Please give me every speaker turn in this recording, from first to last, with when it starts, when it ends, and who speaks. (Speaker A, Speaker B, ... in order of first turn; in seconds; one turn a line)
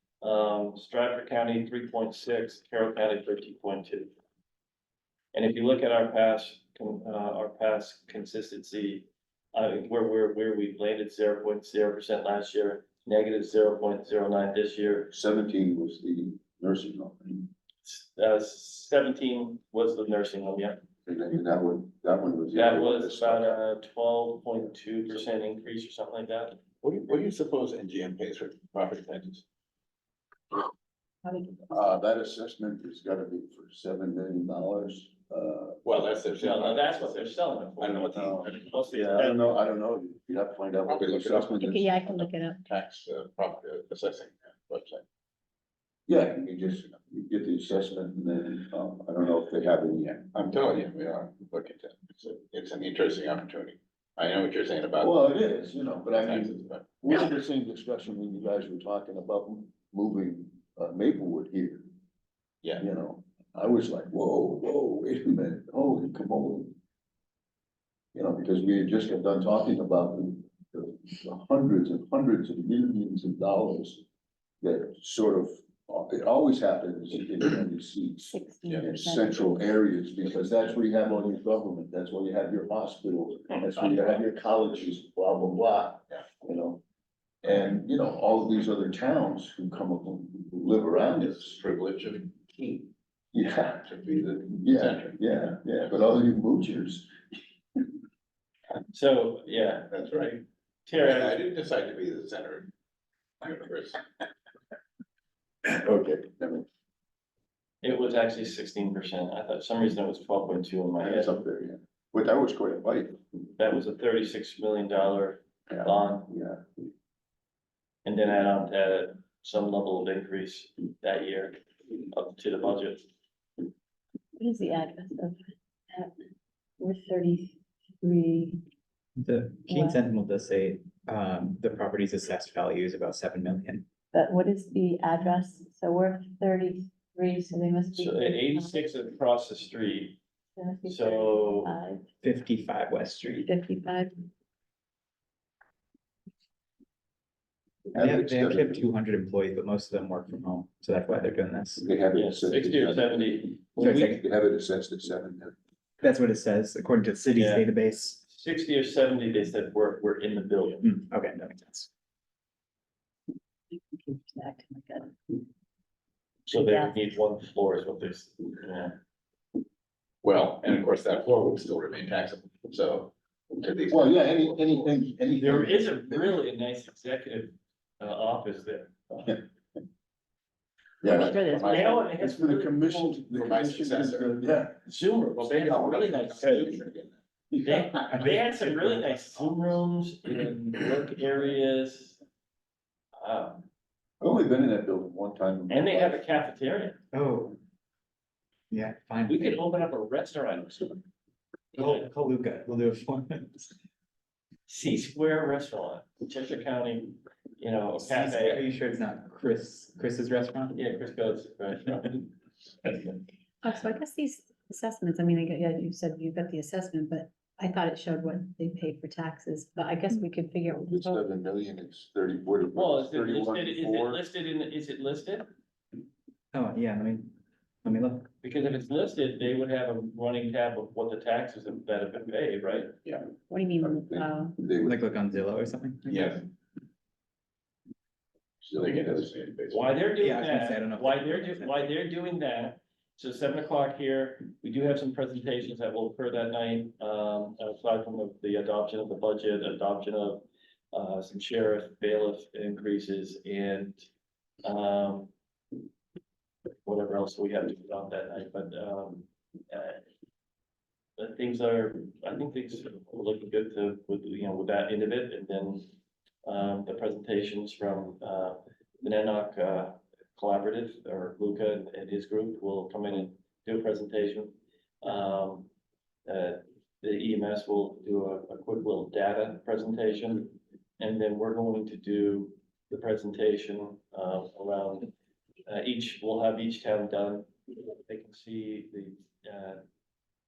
Speaker A: 0.2-4.1
Speaker A: 5.3-15.1
Speaker B: 15.1-17.5
Speaker A: 17.8-20.8
Speaker B: 21.1-23.6
Speaker A: 22.5-26.6
Speaker C: 26.8-29.4
Speaker D: 31.2-31.6
Speaker B: 31.6-35.8
Speaker C: 35.8-38.7
Speaker A: 36.4-39.5
Speaker B: 38.1-41.9
Speaker C: 40.9-45.0
Speaker D: 41.6-42.6
Speaker B: 46.1-50.3
Speaker C: 50.3-55.2
Speaker B: 55.0-61.9
Speaker C: 56.2-56.8
Speaker B: 62.8-66.7
Speaker B: 68.1-74.0
Speaker B: 74.6-86.8
Speaker D: 78.3-79.7
Speaker B: 87.4-91.6
Speaker C: 91.2-92.9
Speaker B: 93.3-97.1
Speaker C: 93.7-95.1
Speaker A: 98.9-101.4
Speaker C: 99.9-100.3
Speaker C: 101.0-102.7
Speaker C: 103.4-104.0
Speaker B: 105.6-106.7
Speaker A: 107.8-111.4
Speaker B: 111.0-113.2
Speaker A: 113.6-116.3
Speaker B: 115.7-116.6
Speaker A: 118.0-121.6
Speaker A: 122.1-123.1
Speaker D: 124.4-125.4
Speaker D: 126.8-128.6
Speaker E: 129.2-133.9
Speaker D: 129.7-130.0
Speaker D: 134.1-138.9
Speaker A: 137.9-140.2
Speaker D: 140.6-142.1
Speaker A: 140.9-141.8
Speaker E: 142.2-143.5
Speaker D: 143.5-144.2
Speaker B: 147.9-148.9
Speaker E: 148.0-151.8
Speaker B: 151.8-155.6
Speaker A: 152.1-154.0
Speaker E: 153.8-154.2
Speaker E: 156.0-158.2
Speaker A: 157.3-157.7
Speaker A: 158.2-160.9
Speaker E: 160.8-161.9
Speaker D: 163.9-165.1
Speaker A: 166.5-168.9
Speaker D: 166.5-166.9
Speaker C: 170.2-175.0
Speaker B: 173.9-176.4
Speaker A: 175.4-179.0
Speaker B: 181.0-184.8
Speaker C: 181.1-182.0
Speaker A: 181.4-183.4
Speaker C: 183.3-184.3
Speaker A: 184.9-186.8
Speaker C: 185.4-187.2
Speaker B: 187.5-187.9
Speaker A: 187.6-192.2
Speaker E: 188.1-189.6
Speaker A: 193.2-193.7
Speaker B: 194.2-196.2
Speaker A: 195.7-197.0
Speaker E: 197.1-197.6
Speaker E: 198.7-199.6
Speaker A: 199.2-201.1
Speaker A: 201.8-202.1
Speaker E: 201.8-203.7
Speaker A: 204.7-208.6
Speaker E: 208.0-210.7
Speaker A: 210.7-212.3
Speaker A: 212.8-213.2
Speaker D: 213.6-221.2
Speaker B: 220.9-224.2
Speaker A: 222.7-225.5
Speaker E: 226.5-227.3
Speaker E: 227.8-228.3
Speaker A: 228.4-232.9
Speaker D: 233.5-234.6
Speaker B: 233.8-235.1
Speaker E: 234.8-236.3
Speaker C: 236.1-236.5
Speaker C: 238.6-239.9
Speaker B: 238.7-239.3
Speaker A: 239.7-254.1
Speaker E: 240.2-241.9
Speaker A: 254.6-255.3
Speaker A: 256.9-260.0
Speaker A: 261.2-265.9
Speaker A: 266.4-275.7
Speaker A: 276.2-285.1
Speaker A: 285.7-289.8